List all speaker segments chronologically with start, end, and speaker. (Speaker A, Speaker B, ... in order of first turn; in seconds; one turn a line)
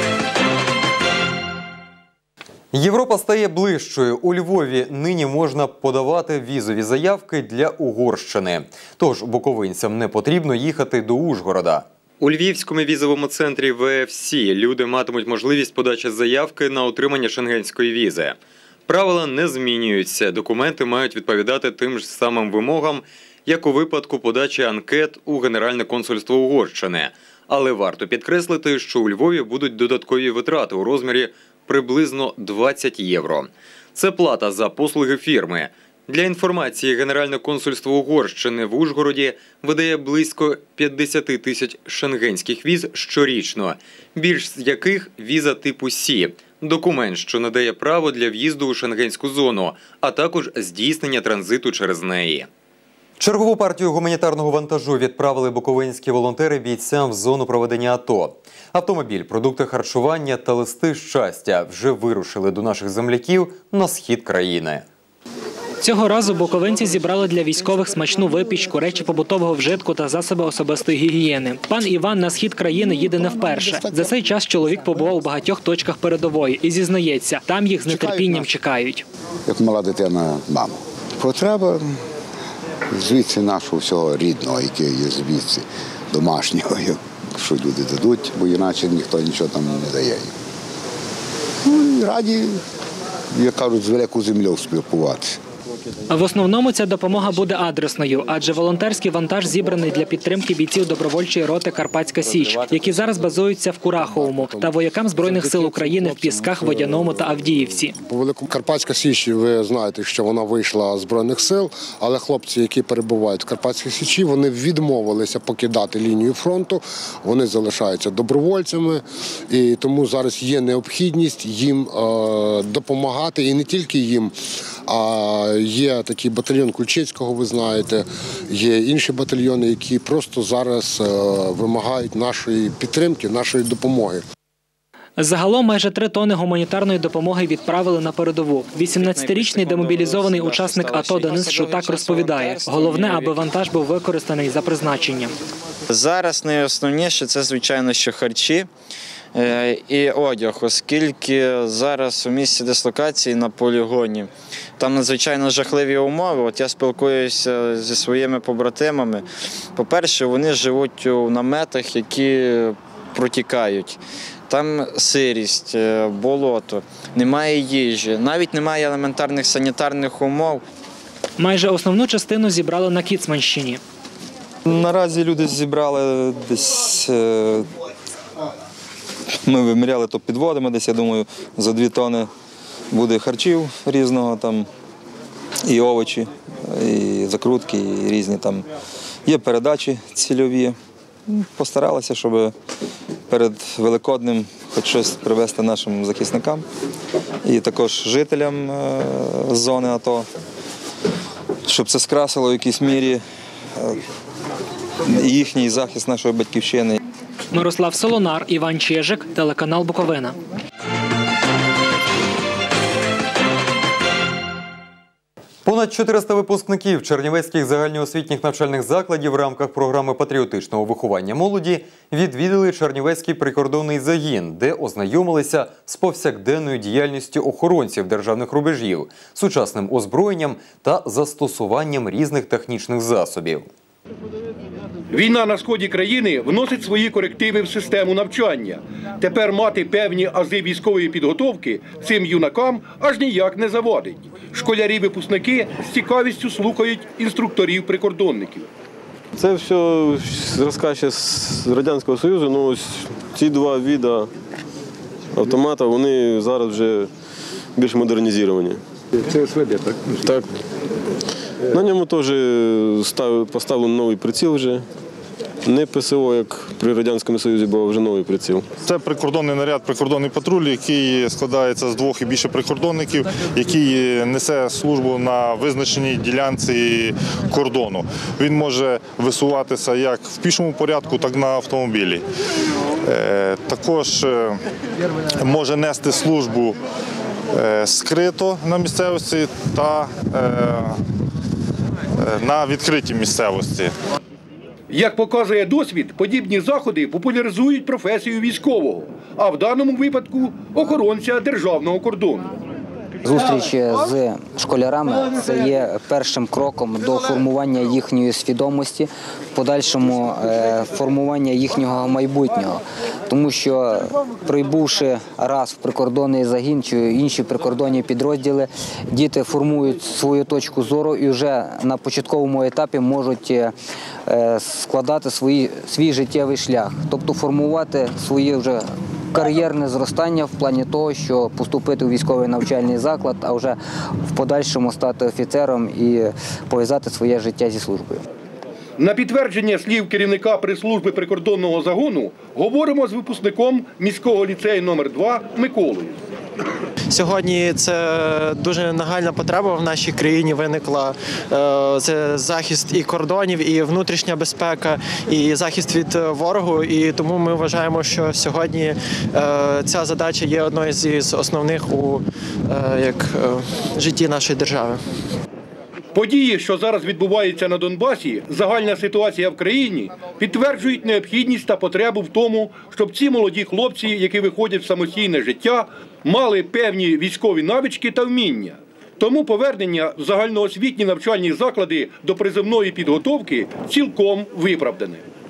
Speaker A: 2.7-18.4
Speaker A: 18.9-52.5
Speaker A: 53.2-64.8
Speaker B: 65.8-79.0
Speaker C: 79.5-81.7
Speaker C: 83.0-85.6
Speaker C: 86.1-90.3
Speaker C: 91.7-92.6
Speaker C: 93.4-95.3
Speaker B: 96.1-108.0
Speaker D: 104.0-104.8
Speaker D: 108.1-124.3
Speaker D: 124.9-134.2
Speaker B: 135.2-145.3
Speaker E: 139.0-143.2
Speaker E: 145.9-148.7
Speaker E: 149.3-164.0
Speaker E: 164.5-170.6
Speaker B: 171.4-173.8
Speaker F: 174.7-177.7
Speaker F: 179.4-182.3
Speaker F: 182.9-184.7
Speaker F: 185.7-188.7
Speaker F: 189.3-190.8
Speaker F: 191.3-192.5
Speaker F: 193.3-196.7
Speaker F: 197.4-200.2
Speaker F: 201.7-203.2
Speaker F: 205.1-207.0
Speaker B: 207.5-210.4
Speaker A: 215.7-233.7
Speaker D: 235.1-248.7
Speaker G: 249.4-254.3
Speaker G: 255.3-257.1
Speaker G: 257.8-258.8
Speaker G: 260.2-260.5
Speaker G: 261.7-264.9
Speaker G: 265.7-268.7
Speaker H: 274.4-275.5
Speaker H: 276.3-277.0
Speaker H: 277.6-282.2
Speaker H: 283.2-284.5
Speaker H: 285.6-286.6
Speaker H: 287.7-290.2
Speaker H: 292.5-293.9
Speaker D: 294.9-302.5
Speaker I: 303.2-323.7
Speaker I: 324.3-338.2
Speaker D: 339.0-346.1
Speaker J: 347.1-365.0
Speaker D: 366.1-385.2